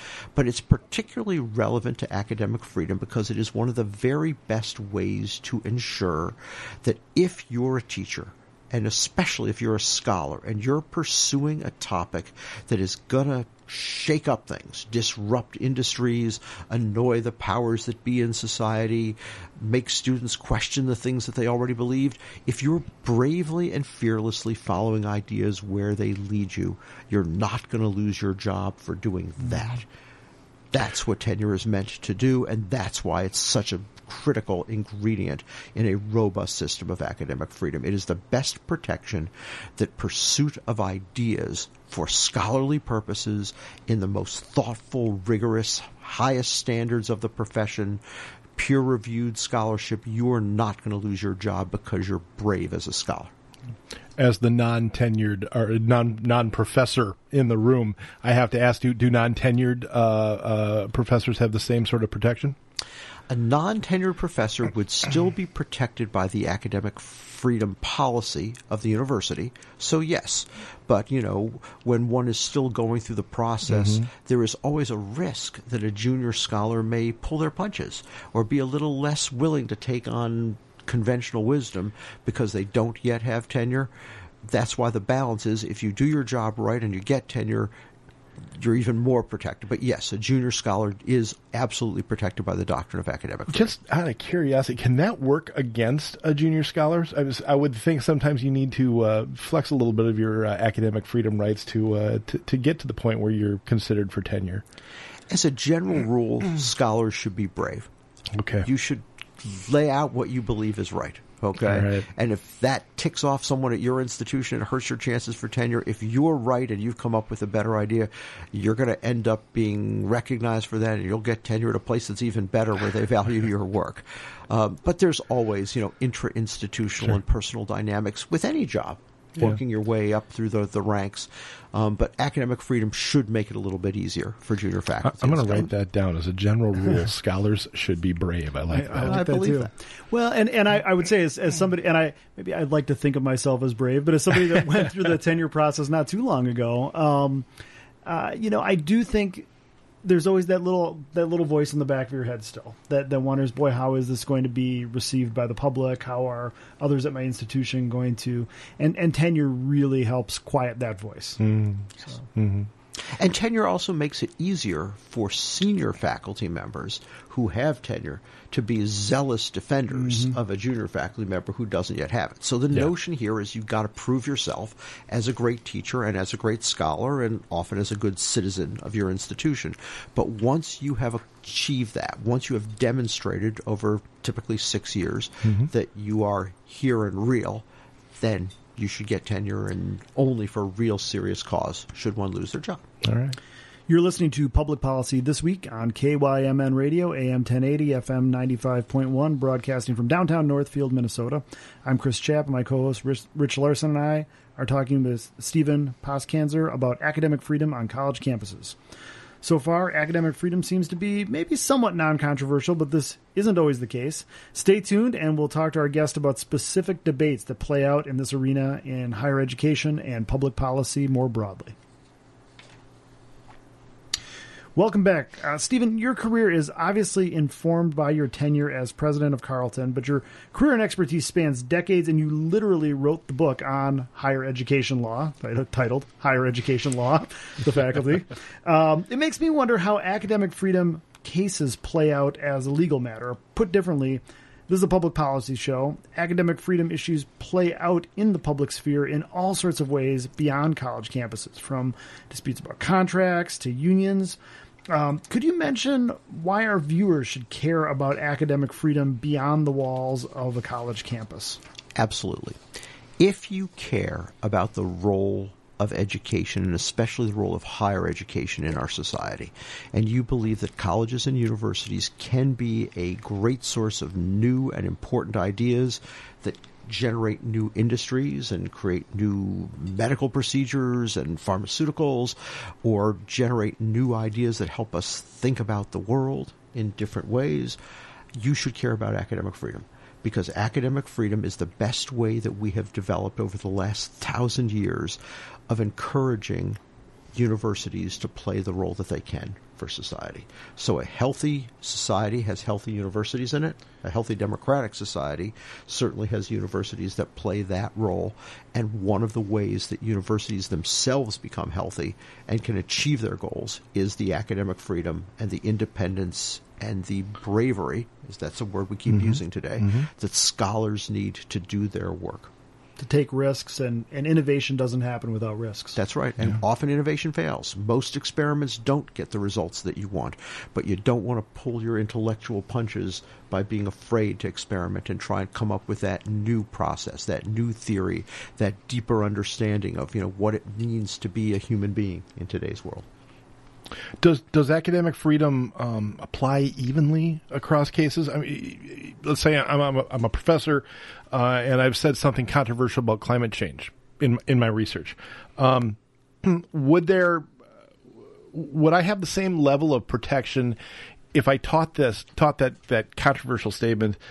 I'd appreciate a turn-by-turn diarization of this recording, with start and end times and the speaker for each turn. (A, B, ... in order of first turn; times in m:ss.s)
0:00.3-0:29.8 A
0:30.7-0:48.0 A
0:48.5-0:53.3 A
0:54.2-1:02.6 B
1:03.3-1:23.9 A
1:24.4-1:27.7 A
1:28.4-1:33.7 A
1:33.5-1:44.6 B
1:45.3-1:47.9 A
1:48.3-1:48.7 B
1:48.6-2:15.7 A
1:51.6-1:52.1 B
2:15.0-2:19.2 B
2:18.7-2:27.5 C
2:18.9-2:19.7 A
2:28.0-2:29.5 C
2:30.0-2:41.4 C
2:41.4-2:42.7 B
2:43.0-3:12.8 A
2:50.0-2:50.3 C
3:13.0-3:13.4 B
3:13.9-3:28.8 C
3:29.4-3:41.8 C
3:44.7-4:14.4 C
4:14.9-4:21.6 C
4:22.0-4:22.6 A
4:23.2-4:47.8 A
4:48.3-4:55.2 A
4:55.7-4:56.8 A
4:57.3-5:22.5 A
5:23.0-5:26.0 C
5:25.9-5:43.0 A
5:44.2-5:57.5 B
5:58.5-6:00.8 B
6:01.3-6:04.2 B